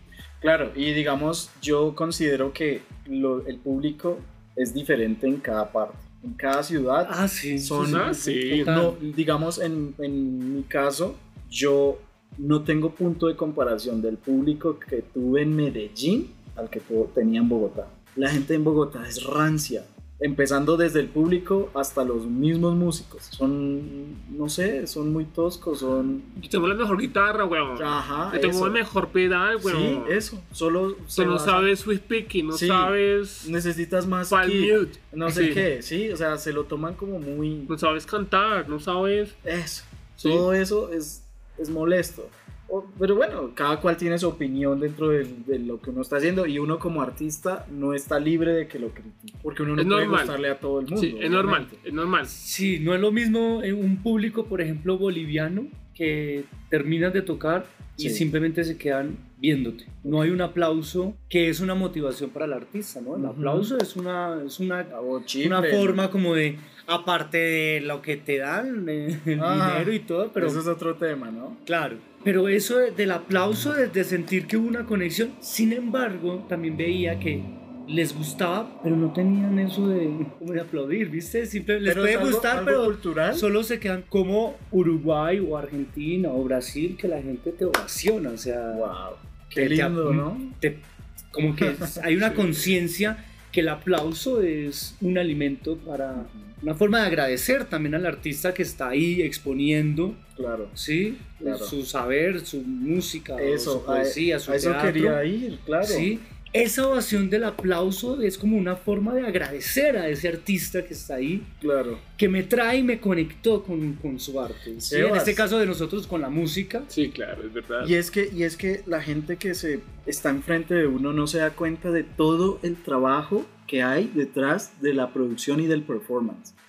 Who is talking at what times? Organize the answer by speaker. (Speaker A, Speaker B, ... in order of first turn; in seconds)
Speaker A: 0.4-26.3, 27.8-28.8, 29.6-31.7, 32.5-37.7, 39.4-51.8, 58.0-58.2, 60.0-60.4, 63.1-63.7, 64.9-66.1, 69.4-71.6, 81.8-83.5, 88.7-90.5, 91.6-92.0, 96.1-96.5, 100.4-100.7, 101.4-101.7, 103.4-106.1, 111.6-112.0, 114.8-115.4, 117.8-126.5
Speaker B: 7.0-9.0, 52.3-70.6, 71.7-88.9, 89.5-100.2, 100.7-105.2, 105.8-111.6, 112.2-116.9
Speaker C: 7.8-8.7, 26.4-30.2, 31.1-33.5, 34.3-35.6, 37.7-39.4, 40.2-40.5, 49.8-50.4, 50.9-52.4, 116.9-117.9